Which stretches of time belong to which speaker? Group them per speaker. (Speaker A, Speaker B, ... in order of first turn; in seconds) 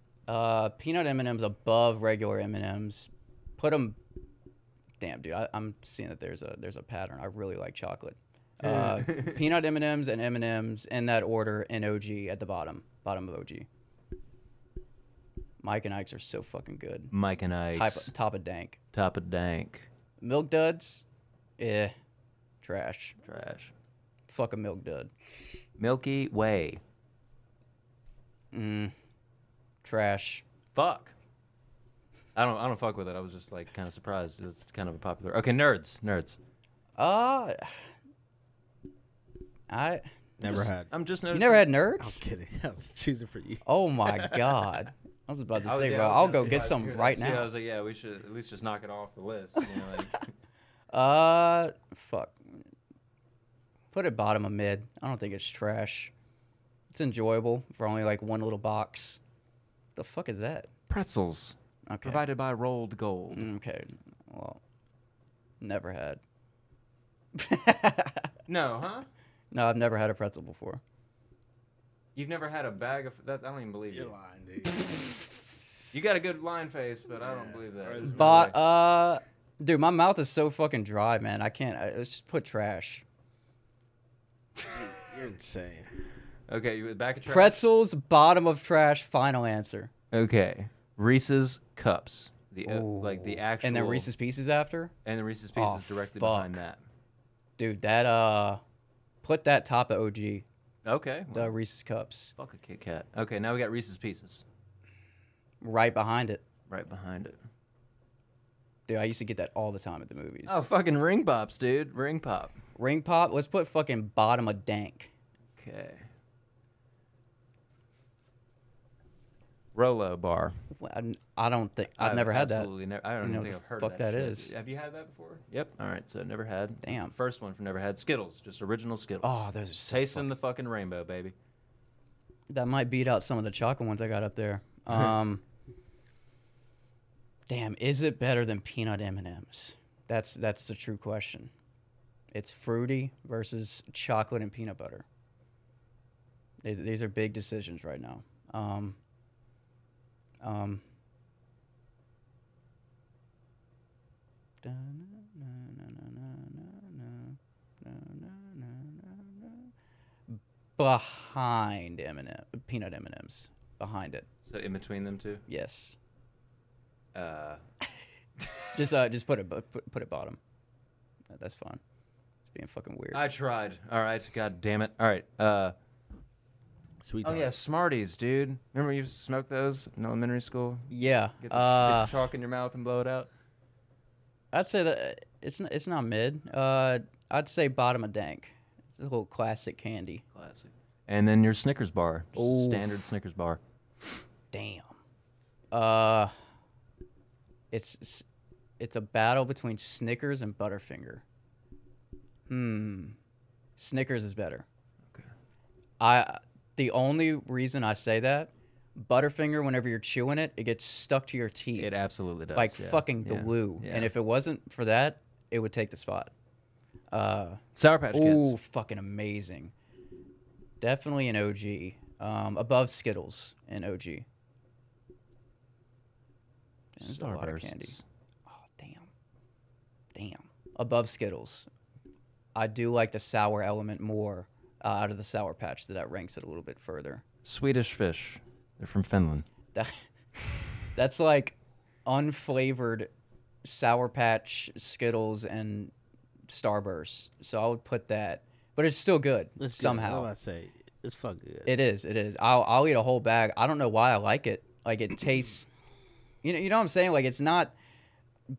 Speaker A: 0.3-4.0, 5.0-13.7, 15.6-17.1, 17.7-18.8, 20.2-21.1, 21.6-21.9, 22.6-23.2, 24.3-25.1, 28.5-28.9, 29.8-30.4, 37.0-37.7, 39.7-40.1, 41.3-42.2, 43.7-47.5, 50.9-52.6, 53.9-56.1, 56.9-59.2, 60.0-60.7, 61.9-62.2, 63.3-64.6, 65.6-66.2, 67.3-68.3, 69.5-70.8, 78.0-83.0, 87.3-89.9, 92.6-94.9, 95.5-96.6, 97.6-98.6, 99.2-100.5, 101.3-102.3, 105.6-106.4, 108.9-110.6, 112.8-115.1, 120.7-124.5, 126.8-127.1, 129.2-130.3, 132.5-135.4, 137.5-141.5, 142.3-145.1, 146.6-149.0, 150.4-150.8, 154.6-159.7, 160.3-164.3, 165.5-166.0, 168.7-170.4, 171.3-171.8, 172.4-173.2, 180.9-182.3, 184.5-190.2, 192.3-192.9, 194.5-195.0, 195.7-196.3, 197.7-198.2, 198.8-201.2, 202.5-203.2, 203.8-204.7, 206.0-211.9, 212.6-216.3, 217.1-219.7, 220.8-224.3, 226.9-229.1, 230.1-231.7, 232.6-237.2, 239.7-240.0, 240.9-243.1, 243.6-245.9, 246.5-250.3, 251.7-255.7, 256.4-257.7
Speaker B: 9.1-9.3, 17.1-18.1, 18.9-19.9, 23.2-23.7, 25.8-26.8, 30.7-31.1, 32.4-36.4, 40.5-41.7, 45.6-50.2, 60.9-63.5, 68.5-69.1, 72.2-74.2, 75.9-78.6, 86.5-87.6, 90.1-94.1, 95.0-96.8, 100.8-101.5, 102.4-104.4, 106.7-107.4, 110.5-112.6, 115.6-116.1, 119.8-120.6, 122.0-131.3, 164.5-165.4, 167.2-167.6, 173.1-175.8, 177.2-183.3, 190.3-193.6, 211.8-214.1, 217.8-218.6, 227.0-228.0, 237.4-239.5
Speaker C: 40.4-40.9, 42.0-44.6, 73.9-74.9, 77.2-78.5, 84.6-85.9, 177.0-177.5, 249.6-251.7